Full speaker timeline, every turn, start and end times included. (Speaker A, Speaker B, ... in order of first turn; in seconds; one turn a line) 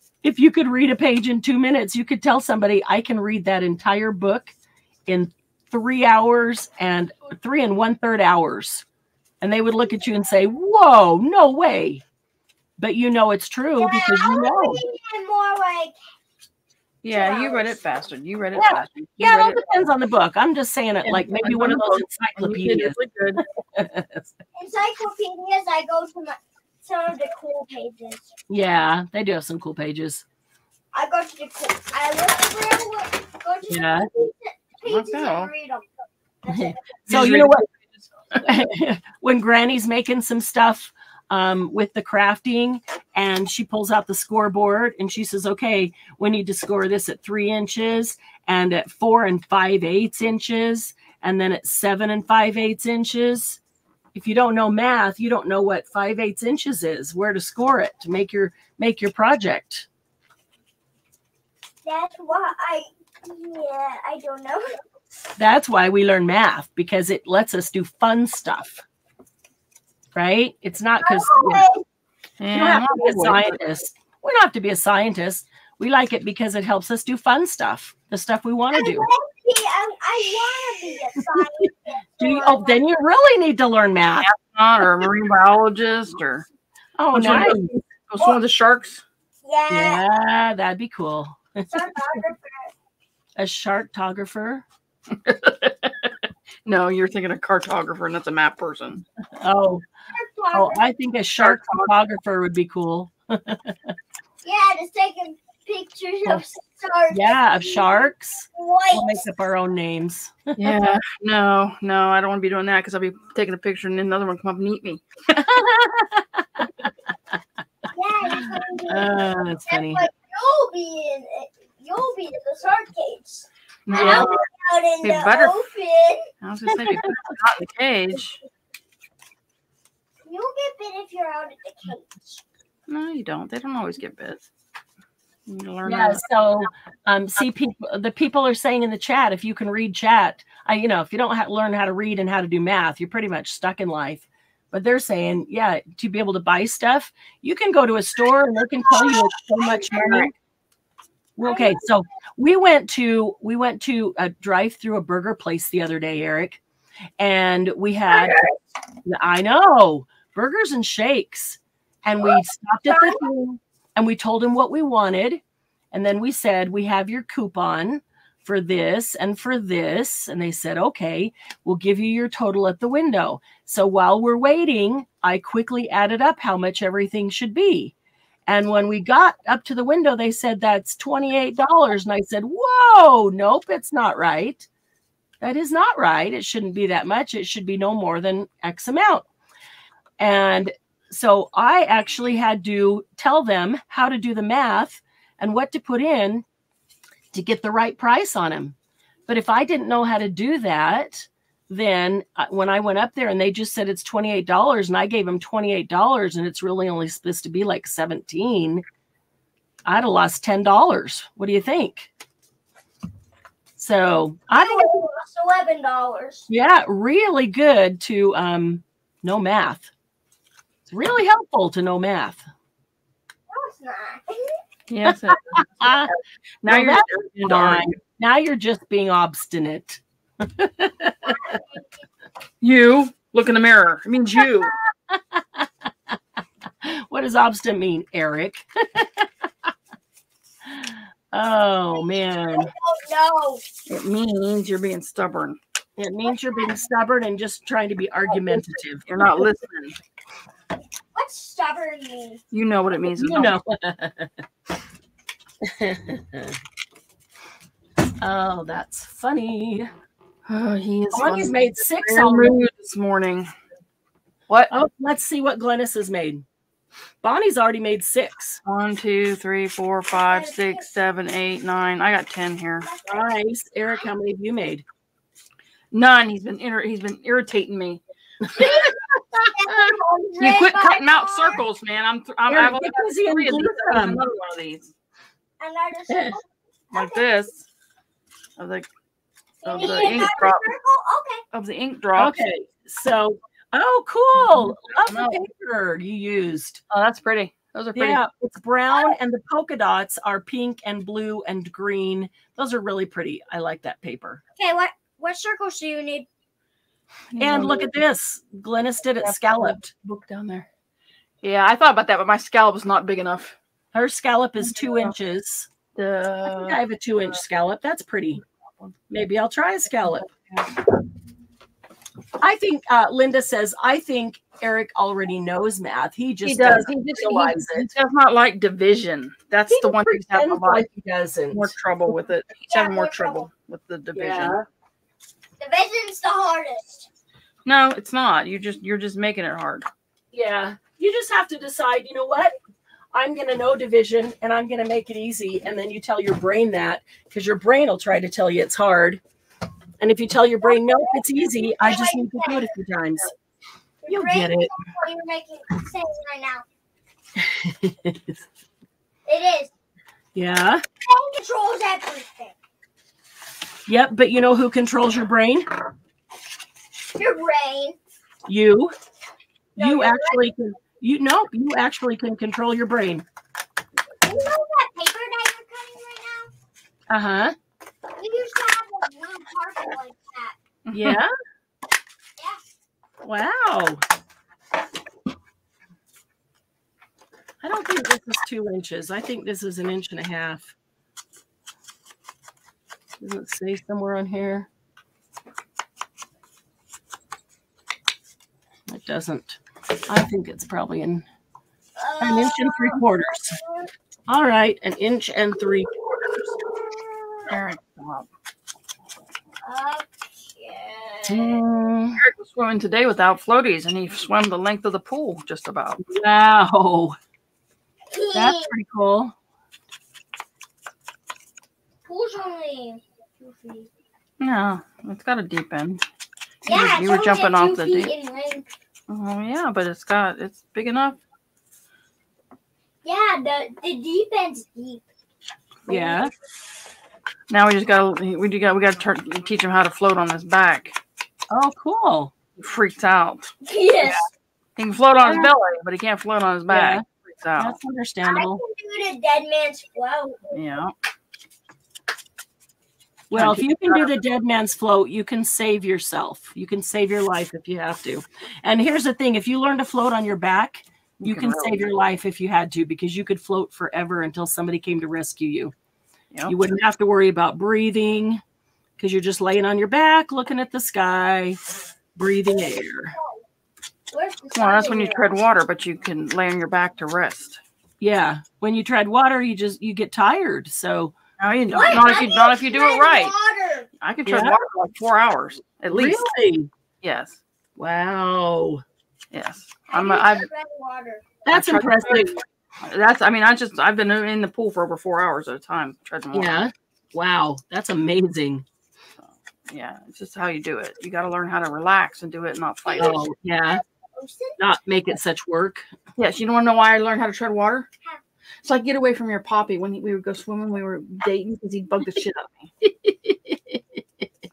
Speaker A: 0.2-4.5
Speaker A: 5.1-8.8
Speaker A: 9.4-12.0
Speaker A: 12.8-14.8
Speaker B: 13.8-16.0
Speaker C: 17.0-19.6
Speaker B: 17.1-17.8
Speaker A: 18.6-23.0
Speaker C: 21.0-23.4
Speaker A: 23.7-24.3
Speaker B: 24.6-28.3
Speaker A: 28.5-30.2
Speaker B: 30.9-35.9
Speaker A: 33.7-34.1
Speaker C: 34.9-35.5
Speaker B: 36.4-37.0
Speaker A: 36.5-37.7
Speaker C: 37.1-38.4
Speaker A: 38.4-53.6
Speaker A: 54.1-59.9
Speaker B: 61.9-64.8
Speaker A: 65.4-68.8
Speaker A: 70.2-71.7
Speaker B: 71.0-71.8
Speaker C: 72.4-73.6
Speaker A: 72.5-79.1
Speaker B: 78.7-82.8
Speaker A: 82.2-84.3
Speaker C: 84.2-86.5
Speaker A: 87.0-87.8
Speaker C: 87.1-89.0
Speaker B: 89.5-90.0
Speaker A: 89.7-92.2
Speaker B: 91.7-92.7
Speaker A: 93.4-94.7
Speaker C: 95.1-96.2
Speaker C: 96.7-99.0
Speaker A: 99.4-99.8
Speaker B: 100.1-100.9
Speaker A: 100.5-104.0
Speaker C: 101.4-101.9
Speaker B: 104.4-109.2
Speaker A: 107.1-110.8
Speaker C: 110.6-115.0
Speaker A: 115.3-116.9
Speaker B: 117.9-126.3
Speaker A: 118.9-120.1
Speaker C: 123.9-124.4
Speaker A: 123.9-124.3
Speaker C: 125.0-125.5
Speaker C: 126.4-128.4
Speaker A: 126.7-127.1
Speaker B: 130.2-132.4
Speaker C: 132.9-134.4
Speaker C: 135.5-136.2
Speaker A: 135.8-150.3
Speaker B: 148.8-150.3
Speaker A: 151.4-156.6
Speaker B: 151.4-151.8
Speaker A: 157.2-158.4
Speaker A: 159.1-165.4
Speaker B: 162.9-163.2
Speaker A: 165.9-177.9
Speaker A: 178.5-184.7
Speaker A: 185.4-189.3
Speaker A: 190.2-196.4
Speaker A: 197.3-198.8
Speaker A: 199.3-208.8
Speaker A: 209.8-212.1
Speaker A: 213.8-215.1
Speaker B: 214.5-216.5
Speaker A: 216.5-219.9
Speaker A: 220.9-222.4
Speaker B: 223.5-224.6
Speaker C: 224.9-226.1
Speaker A: 225.1-231.6
Speaker C: 226.6-227.9
Speaker B: 231.5-231.8
Speaker C: 232.6-234.7
Speaker A: 235.1-236.2
Speaker A: 236.8-239.7
Speaker A: 240.7-242.7
Speaker B: 242.5-243.6
Speaker C: 243.9-245.6
Speaker A: 246.0-249.1
Speaker C: 248.5-250.0
Speaker B: 251.2-252.4
Speaker C: 252.5-253.5
Speaker A: 253.2-254.3
Speaker A: 255.6-256.6
Speaker A: 258.2-259.9
Speaker C: 260.5-263.5
Speaker A: 261.1-262.6
Speaker A: 264.7-266.4
Speaker A: 267.2-268.6
Speaker C: 268.6-272.9
Speaker B: 270.2-270.8
Speaker B: 272.8-273.2
Speaker A: 273.1-274.8
Speaker C: 275.9-278.0
Speaker A: 278.4-279.9
Speaker B: 278.6-281.6
Speaker C: 280.4-284.9
Speaker A: 282.5-284.2
Speaker B: 285.6-287.3
Speaker A: 286.1-286.4
Speaker C: 286.9-287.6
Speaker C: 288.6-288.9
Speaker B: 289.6-291.4
Speaker C: 289.6-290.7
Speaker C: 291.5-292.4
Speaker A: 292.2-296.8
Speaker C: 294.4-295.4
Speaker C: 296.9-298.2
Speaker A: 297.9-304.4
Speaker B: 304.6-306.3
Speaker C: 307.3-307.9
Speaker A: 307.4-309.9
Speaker C: 309.2-310.7
Speaker C: 311.4-313.6
Speaker A: 313.9-315.7
Speaker C: 314.8-315.1
Speaker C: 315.9-316.8
Speaker A: 316.4-318.4
Speaker A: 319.1-320.3
Speaker C: 320.1-320.7
Speaker A: 322.4-327.9
Speaker C: 326.4-330.9
Speaker A: 329.7-331.8
Speaker C: 331.5-334.6
Speaker B: 332.7-333.5
Speaker A: 334.1-334.7
Speaker B: 335.6-337.1
Speaker C: 337.6-339.9
Speaker A: 340.3-342.6
Speaker A: 343.1-349.2
Speaker A: 350.0-353.3
Speaker B: 350.6-352.7
Speaker B: 354.0-356.6
Speaker A: 354.1-354.7
Speaker A: 357.4-358.4
Speaker B: 359.3-359.7
Speaker A: 360.4-360.8
Speaker B: 361.0-362.6
Speaker A: 363.9-365.7
Speaker B: 367.1-368.0
Speaker A: 368.5-368.9
Speaker A: 369.8-373.2
Speaker B: 369.8-370.5
Speaker B: 374.2-376.5
Speaker A: 377.1-377.6
Speaker B: 378.2-380.6
Speaker C: 380.9-381.2
Speaker A: 380.9-381.3
Speaker A: 383.2-384.0
Speaker A: 387.6-390.7
Speaker A: 393.2-394.7
Speaker A: 398.9-401.2
Speaker B: 402.0-403.9
Speaker A: 402.2-403.6
Speaker A: 404.3-406.6
Speaker B: 406.9-407.5
Speaker C: 407.5-408.3
Speaker B: 409.6-411.6
Speaker A: 411.3-412.2
Speaker C: 412.2-416.0
Speaker A: 416.0-417.2
Speaker B: 418.1-418.7
Speaker A: 418.3-419.4
Speaker B: 422.1-423.9
Speaker C: 424.4-426.0
Speaker B: 426.6-428.6
Speaker C: 426.7-428.1
Speaker C: 429.1-431.2
Speaker B: 433.0-435.0
Speaker B: 435.9-436.2
Speaker A: 435.9-436.3
Speaker C: 437.5-441.0
Speaker A: 441.5-442.3
Speaker C: 442.6-443.5
Speaker B: 443.6-444.3
Speaker C: 444.8-447.8
Speaker A: 445.2-445.5
Speaker A: 446.7-447.0
Speaker A: 447.6-448.6
Speaker B: 448.3-450.6
Speaker C: 450.5-450.9
Speaker A: 453.3-465.7
Speaker C: 453.3-454.1
Speaker C: 461.2-461.8
Speaker A: 466.5-468.4
Speaker A: 469.0-471.6
Speaker A: 472.1-473.2
Speaker B: 474.1-475.4
Speaker C: 474.6-477.6
Speaker A: 478.0-481.1
Speaker C: 481.4-483.3
Speaker B: 481.7-483.9
Speaker C: 484.0-486.2
Speaker A: 484.3-484.6
Speaker A: 485.9-486.7
Speaker C: 487.0-487.4
Speaker A: 487.8-488.8
Speaker C: 489.3-490.5
Speaker B: 489.9-491.3
Speaker A: 491.5-492.4
Speaker C: 491.5-496.6
Speaker A: 496.3-498.6
Speaker C: 499.2-503.2
Speaker B: 502.9-503.2
Speaker A: 503.0-503.8
Speaker B: 504.2-504.6
Speaker A: 504.6-505.9
Speaker C: 506.2-507.9
Speaker C: 508.6-512.7
Speaker A: 512.8-514.3